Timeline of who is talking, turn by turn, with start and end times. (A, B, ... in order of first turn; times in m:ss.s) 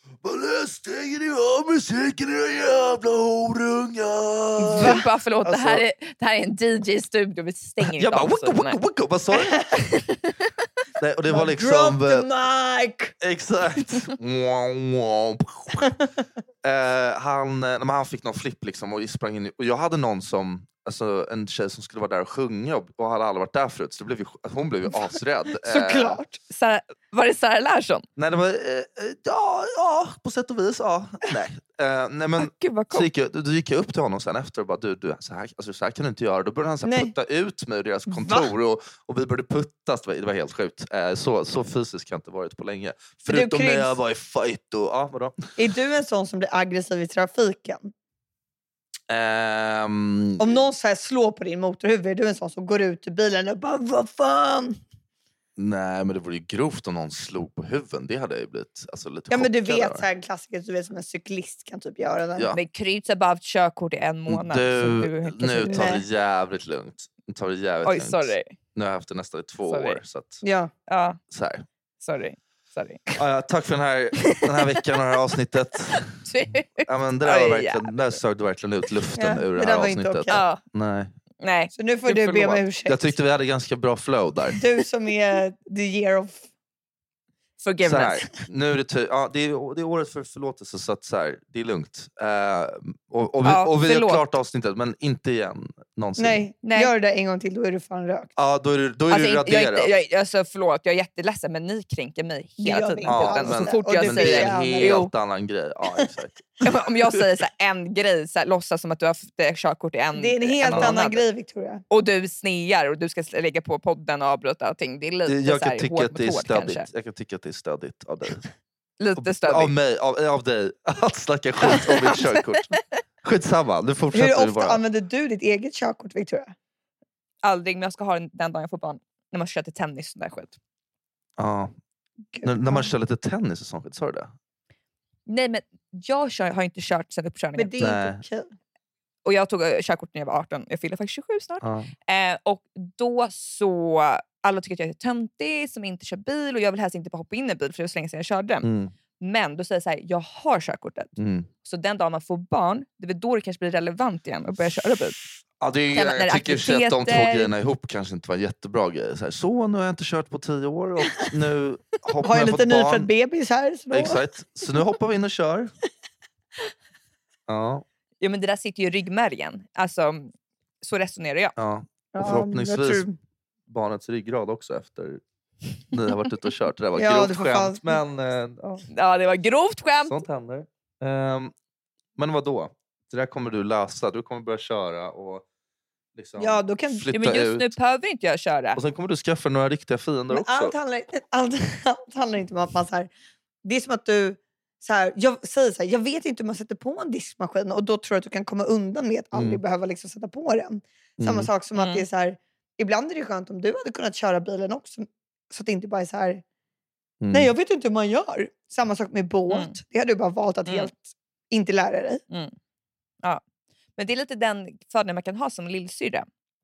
0:00.2-0:05.8 A
0:04.6-0:05.0 B
0:04.7-0:08.8 C
0:07.8-0:09.6 A
0:09.4-0:09.7 B
0:09.7-0:10.6 C
0:11.0-0:12.3 A
0:11.3-0:13.2 B
0:13.2-0:15.9 A
0:16.6-0:26.2 A
0:25.6-0:26.4 B
0:26.5-0:28.1 C
0:28.2-0:45.4 A
0:32.4-0:33.1 C
0:36.8-0:37.1 B
0:38.1-0:38.5 B
0:43.3-0:44.0 B
0:45.6-0:47.9 B
0:49.1-0:50.6 A
0:50.4-0:54.8 B
0:55.6-1:00.0 A
0:59.3-1:02.5 B
1:02.5-1:05.8 C
1:04.3-1:10.4 A
1:05.6-1:06.0 B
1:07.8-1:08.6 C
1:09.7-1:10.0 C
1:10.4-1:10.7 B
1:10.9-1:11.2 C
1:11.3-1:11.6 A
1:12.0-1:13.0 C
1:13.2-1:16.1 A
1:16.2-1:18.0 C
1:16.9-1:21.1 A
1:19.2-1:20.4 B
1:20.3-1:20.6 C
1:21.4-1:22.6 C
1:21.7-1:23.2 B
1:22.9-1:24.6 A
1:24.6-1:26.4 B
1:27.6-1:28.3 C
1:27.8-1:36.4 A
1:33.4-1:34.2 C
1:36.2-1:38.3 B
1:36.6-1:36.9 C
1:38.4-1:39.9 A
1:39.1-1:45.1 C
1:42.6-1:45.0 B
1:43.1-1:47.2 A
1:46.6-1:51.2 C
1:50.2-1:51.8 B
1:50.7-1:51.0 A
1:51.9-1:56.9 C
1:55.3-1:58.5 A
1:59.0-1:59.7 C
1:59.2-2:04.8 A
2:01.7-2:02.8 C
2:04.1-2:06.5 B
2:07.4-2:10.6 C
2:11.4-2:11.7 A
2:12.3-2:12.9 B
2:12.4-2:14.3 A
2:15.3-2:17.7 C
2:17.6-2:18.5 B
2:17.8-2:18.2 A
2:19.2-2:35.2 C
2:21.6-2:21.9 A
2:28.6-2:28.9 A
2:31.2-2:31.5 A
2:35.6-2:43.1 A
2:35.9-2:37.5 C
2:42.2-2:44.2 B
2:43.9-2:45.7 A
2:47.5-2:47.8 A
2:48.2-2:51.6 C
2:51.6-2:53.0 A
2:52.1-2:53.2 B
2:53.7-2:55.2 A
2:55.9-2:58.8 A
2:57.0-2:58.0 B
2:58.9-3:00.2 C
3:00.1-3:01.5 A
3:02.2-3:05.4 A
3:06.2-3:07.7 A
3:06.4-3:07.1 B
3:07.1-3:08.8 C
3:08.8-3:10.8 A
3:10.3-3:13.1 B
3:13.6-3:26.4 B
3:19.3-3:19.6 A
3:21.2-3:21.5 A
3:21.8-3:22.0 C
3:27.2-3:27.5 A
3:27.3-3:32.2 B
3:29.5-3:29.8 C
3:32.3-3:32.6 C
3:34.0-3:36.3 C